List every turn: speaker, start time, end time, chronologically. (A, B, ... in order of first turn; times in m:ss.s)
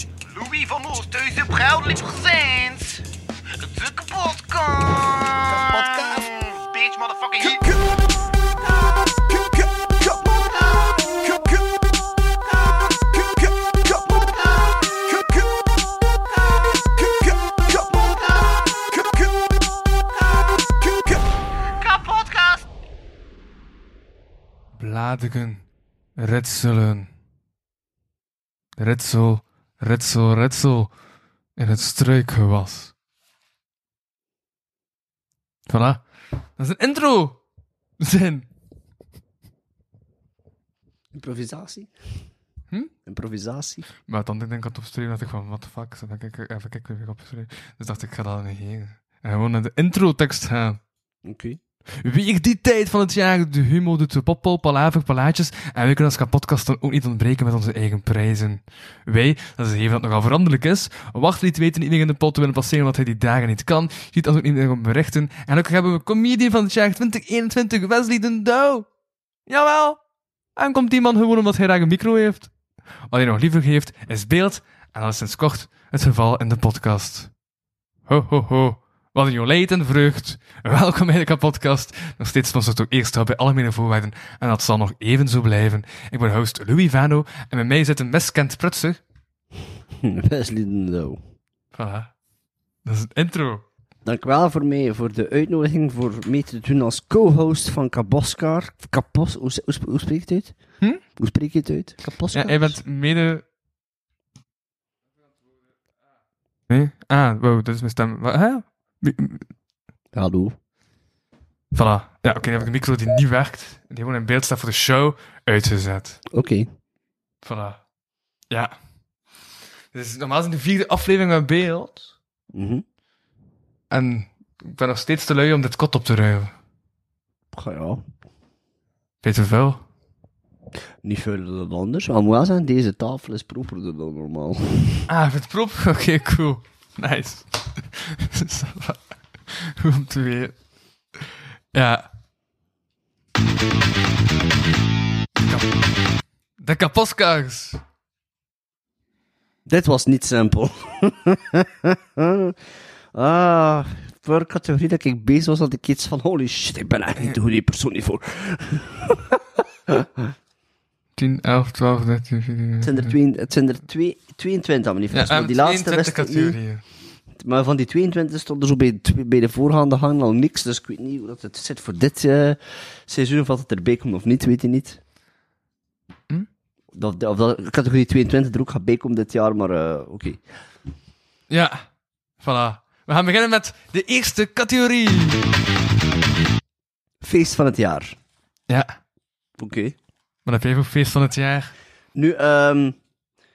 0:00.4-0:03.0 A
0:00.4-0:02.6 B
0:03.7-0:07.6 A
0:03.9-0:07.5 B
0:24.7-0:25.6 C
0:26.2-0:27.1 C
0:28.8-0:30.9 C
0:31.6-0:32.9 C
0:35.7-0:36.0 C
0:36.6-0:37.4 C
0:38.0-0:38.5 C
0:41.1-0:41.9 B
0:43.1-0:43.9 B
0:44.1-0:50.8 C
0:51.2-0:51.6 B
0:52.0-1:08.9 C
1:09.5-1:10.0 C
1:10.6-1:12.5 C
1:13.1-1:17.3 C
1:18.1-1:29.0 C
1:30.0-1:31.2 B
1:31.7-1:32.1 C
1:32.8-1:33.6 C
1:34.0-1:40.6 B
1:41.2-1:42.8 B
1:42.3-1:43.4 C
1:46.7-1:49.5 C
1:50.1-1:50.6 B
1:51.7-1:56.2 C
1:56.3-1:56.7 B
1:57.4-1:57.8 C
1:59.9-2:02.1 C
2:02.5-2:02.8 B
2:03.9-2:06.5 C
2:07.5-2:08.0 B
2:09.2-2:09.8 C
2:11.0-2:15.1 B
2:15.1-2:20.6 C
2:21.2-2:22.1 C
2:25.4-2:25.8 C
2:26.6-2:27.8 C
2:29.7-2:32.5 B
2:33.1-2:40.3 B
2:41.2-2:43.2 C
2:42.8-2:46.6 B
2:45.1-2:46.8 C
2:47.4-2:55.0 B
2:56.9-3:00.4 B
3:01.5-3:01.8 C
3:02.4-3:05.5 C
3:07.2-3:08.2 B
3:08.7-3:09.0 C
3:09.6-3:10.0 B
3:10.5-3:11.7 C
3:12.2-3:13.0 B